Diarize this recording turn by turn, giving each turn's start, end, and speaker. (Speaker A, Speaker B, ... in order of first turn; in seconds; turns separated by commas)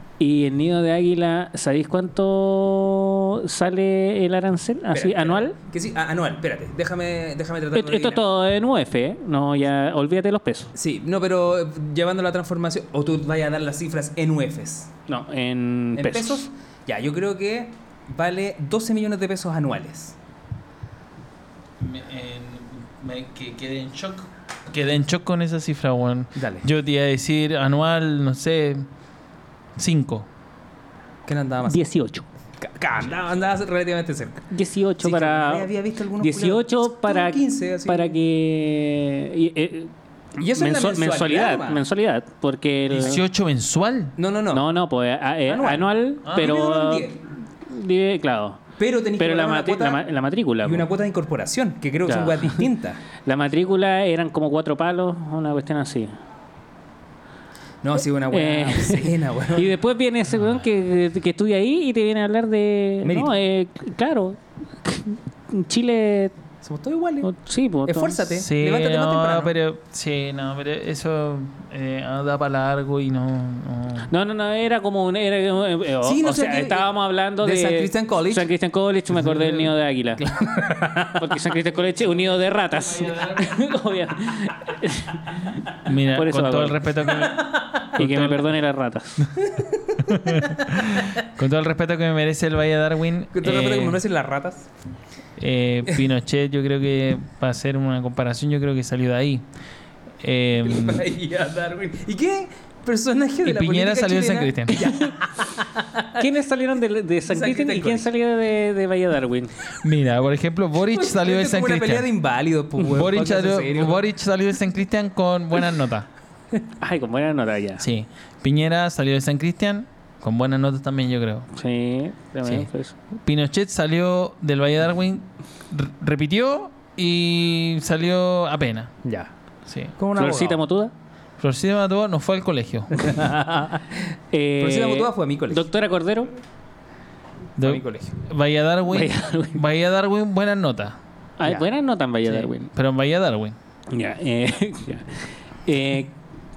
Speaker A: 0.2-5.5, Speaker B: 4.9-8.2, Speaker A: 7.7-10.7, Speaker B: 10.7-14.9, Speaker A: 15.1-16.5, Speaker B: 15.9-20.1, Speaker C: 21.8-28.9, Speaker B: 26.4-26.7, Speaker C: 29.8-30.3, Speaker B: 31.3-31.8, Speaker A: 31.7-32.2, Speaker B: 32.6-34.4, Speaker A: 34.5-35.7, Speaker B: 35.0-38.1, Speaker A: 36.2-43.2, Speaker B: 40.4-41.8, Speaker C: 42.9-44.1, Speaker B: 44.2-44.6, Speaker A: 44.5-47.1, Speaker B: 45.5-47.2, Speaker C: 46.3-46.5, Speaker A: 47.6-48.6, Speaker B: 48.8-50.0, Speaker A: 49.2-50.9, Speaker B: 50.6-53.0, Speaker A: 52.0-52.6, Speaker A: 53.2-56.2, Speaker B: 57.8-59.7, Speaker A: 58.3-66.3, Speaker C: 60.3-60.6, Speaker B: 63.0-63.3, Speaker B: 66.6-67.3, Speaker A: 67.2-68.2, Speaker B: 67.8-69.5, Speaker C: 68.3-74.1, Speaker A: 74.1-80.2, Speaker B: 76.0-76.9, Speaker B: 77.4-78.5, Speaker B: 80.2-81.2, Speaker A: 81.1-87.0, Speaker C: 81.8-83.5, Speaker C: 85.8-88.5, Speaker B: 87.2-87.8, Speaker A: 87.9-89.3, Speaker B: 89.4-91.0, Speaker C: 90.0-94.0, Speaker B: 93.3-94.7, Speaker C: 95.4-99.4, Speaker C: 100.2-101.1, Speaker B: 100.6-106.2, Speaker C: 103.4-104.9, Speaker A: 106.2-109.5, Speaker B: 107.3-108.1, Speaker C: 109.8-112.1, Speaker B: 110.9-114.0, Speaker C: 112.9-116.1, Speaker A: 116.8-117.8, Speaker C: 117.8-121.5, Speaker A: 121.5-122.9, Speaker C: 123.2-128.9, Speaker B: 129.0-129.3, Speaker C: 129.7-129.9, Speaker B: 130.0-130.6, Speaker A: 130.1-130.9, Speaker C: 131.4-133.0, Speaker B: 133.0-134.0, Speaker A: 134.3-136.3, Speaker B: 134.6-135.7, Speaker C: 137.6-141.0, Speaker B: 137.6-138.2, Speaker A: 138.9-139.6, Speaker A: 141.4-142.7, Speaker C: 142.2-143.6, Speaker A: 143.9-146.1